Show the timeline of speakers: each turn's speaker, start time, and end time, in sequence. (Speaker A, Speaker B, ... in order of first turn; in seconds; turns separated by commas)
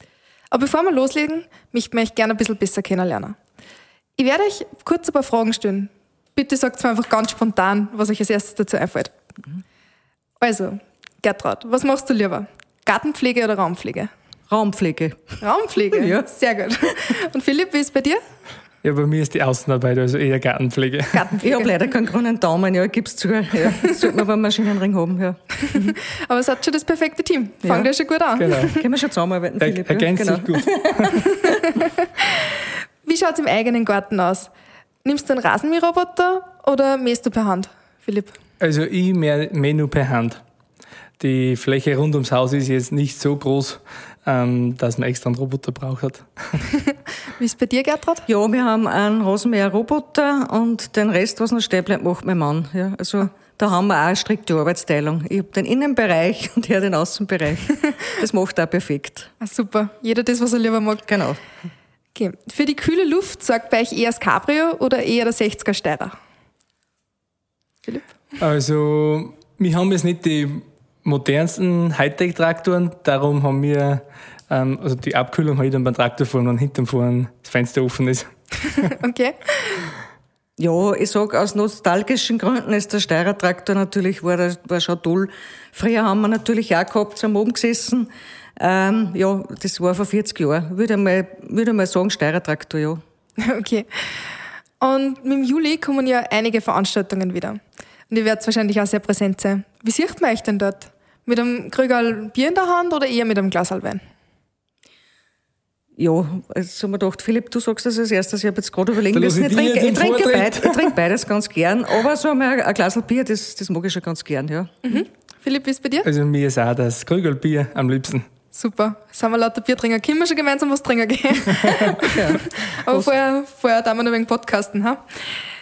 Speaker A: 0.5-3.4, Speaker A: 4.2-9.1, Speaker A: 10.4-14.1, Speaker B: 14.5-15.3, Speaker A: 15.4-18.2, Speaker B: 15.9-16.3, Speaker C: 18.8-21.4, Speaker A: 21.2-21.6, Speaker B: 21.4-25.4, Speaker A: 25.6-28.8, Speaker B: 27.6-27.9, Speaker C: 28.4-28.8, Speaker B: 28.7-31.1, Speaker C: 29.6-31.2, Speaker A: 31.2-32.5, Speaker A: 33.0-34.5, Speaker A: 35.0-38.3, Speaker C: 38.6-40.4, Speaker C: 41.2-46.6, Speaker A: 47.4-48.2, Speaker B: 48.3-59.3, Speaker A: 59.4-61.0, Speaker B: 61.1-61.4, Speaker A: 62.1-66.2, Speaker C: 68.4-78.3, Speaker A: 78.8-79.9, Speaker B: 80.6-93.0, Speaker A: 93.4-104.0, Speaker B: 106.0-114.8, Speaker C: 109.1-110.9, Speaker A: 114.8-116.1, Speaker C: 116.0-118.2, Speaker A: 118.5-125.2, Speaker B: 122.1-123.1